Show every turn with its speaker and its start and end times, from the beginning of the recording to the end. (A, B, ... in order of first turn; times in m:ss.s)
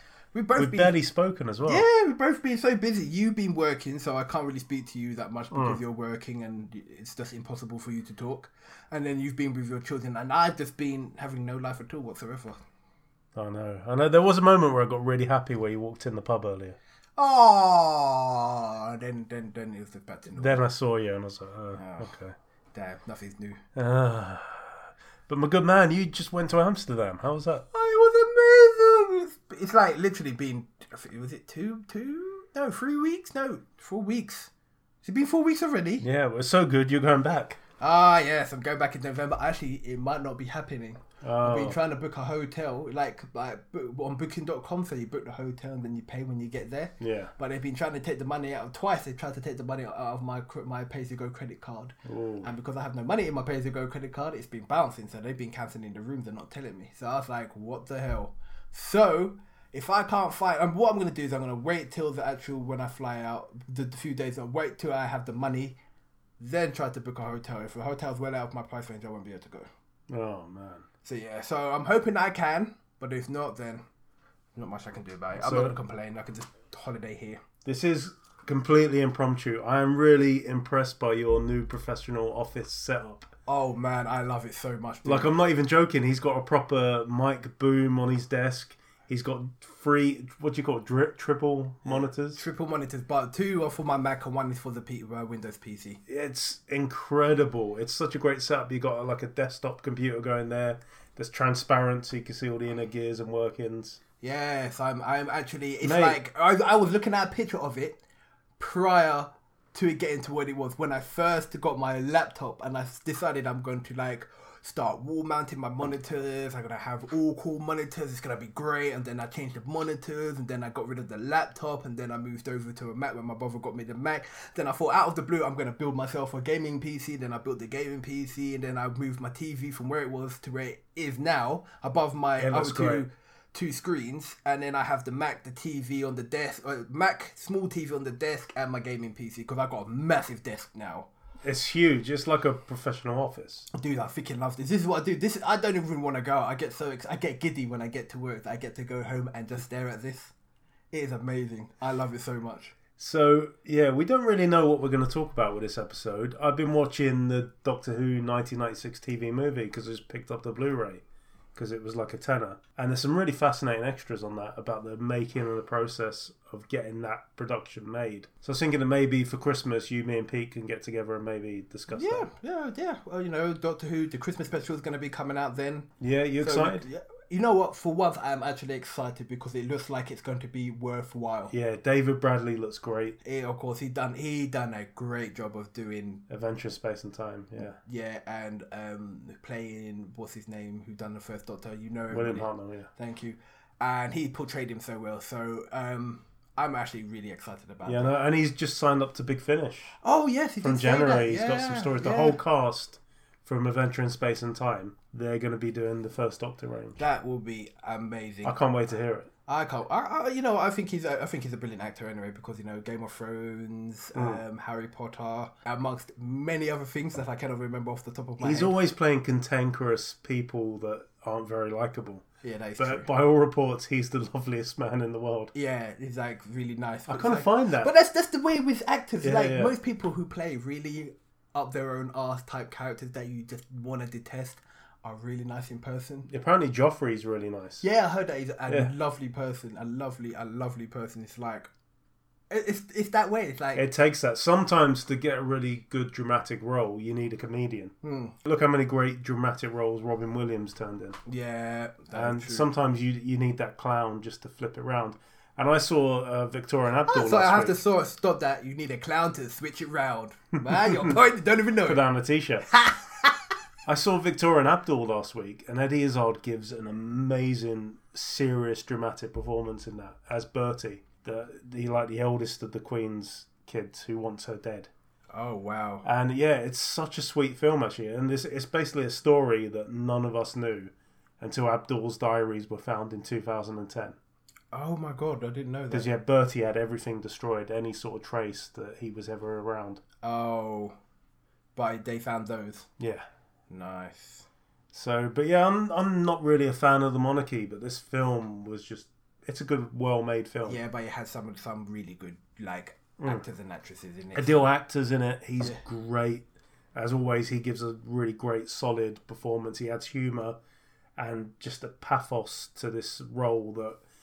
0:00.3-0:01.0 A
0:00.6-0:01.9 B
0:01.6-0:12.6 A
0:05.5-0:05.8 B
0:13.4-0:16.8 B
0:17.2-0:20.6 A
0:20.4-0:22.4 B
0:21.8-0:22.1 A
0:22.7-0:23.6 A
0:23.8-0:27.7 B
0:27.7-0:34.5 A
0:35.0-0:36.0 A
0:36.0-0:37.6 B
0:37.8-1:05.8 A
0:41.2-0:41.8 B
0:47.0-0:47.3 B
0:52.0-0:52.5 B
1:06.4-1:09.7 A
1:10.1-1:10.8 B
1:11.0-1:13.8 A
1:14.6-1:17.4 A
1:15.4-1:15.8 B
1:17.6-1:23.3 B
1:23.5-1:25.3 A
1:25.0-1:32.4 B
1:31.8-1:36.0 A
1:36.1-1:44.0 B
1:44.2-1:48.0 A
1:45.8-1:46.2 B
1:48.6-2:21.1 A
2:12.4-2:13.1 B
2:21.4-2:23.7 B
2:23.7-2:30.3 A
2:30.9-2:32.8 A
2:33.0-2:41.0 B
2:41.6-2:52.3 B
2:51.9-3:01.5 A
2:56.0-2:56.9 B
3:01.5-3:03.2 B
3:03.2-3:06.3 A
3:06.3-3:07.8 B
3:07.8-3:18.1 A
3:12.1-3:12.9 B
3:17.8-3:19.9 B
3:20.0-3:22.4 A
3:20.6-3:27.0 B
3:27.0-3:28.6 A
3:28.4-3:29.3 B
3:29.5-3:38.8 A
3:34.2-3:34.4 B
3:38.4-3:42.2 B
3:42.4-3:43.1 A
3:42.8-3:45.5 B
3:45.5-3:56.3 A
3:47.1-3:47.9 B
3:49.2-3:49.7 B
3:56.3-3:57.8 B
3:57.8-4:01.7 A
4:02.5-4:03.9 A
4:03.8-4:11.2 B
4:08.0-4:08.4 A
4:11.3-4:12.7 A
4:12.1-4:17.8 B
4:17.1-4:22.0 A
4:20.6-4:21.2 B
4:21.8-4:22.7 B
4:22.7-4:23.3 A
4:23.9-4:34.9 B
4:35.3-4:36.1 A
4:36.0-4:44.2 B
4:44.7-4:46.1 A
4:45.9-4:50.0 B
4:50.2-4:51.0 A
4:51.8-4:52.9 A
4:53.0-4:53.3 B
4:53.7-4:54.5 A
4:54.9-5:00.8 B
5:00.6-5:04.7 A
5:04.4-5:10.6 B
5:11.2-5:14.0 B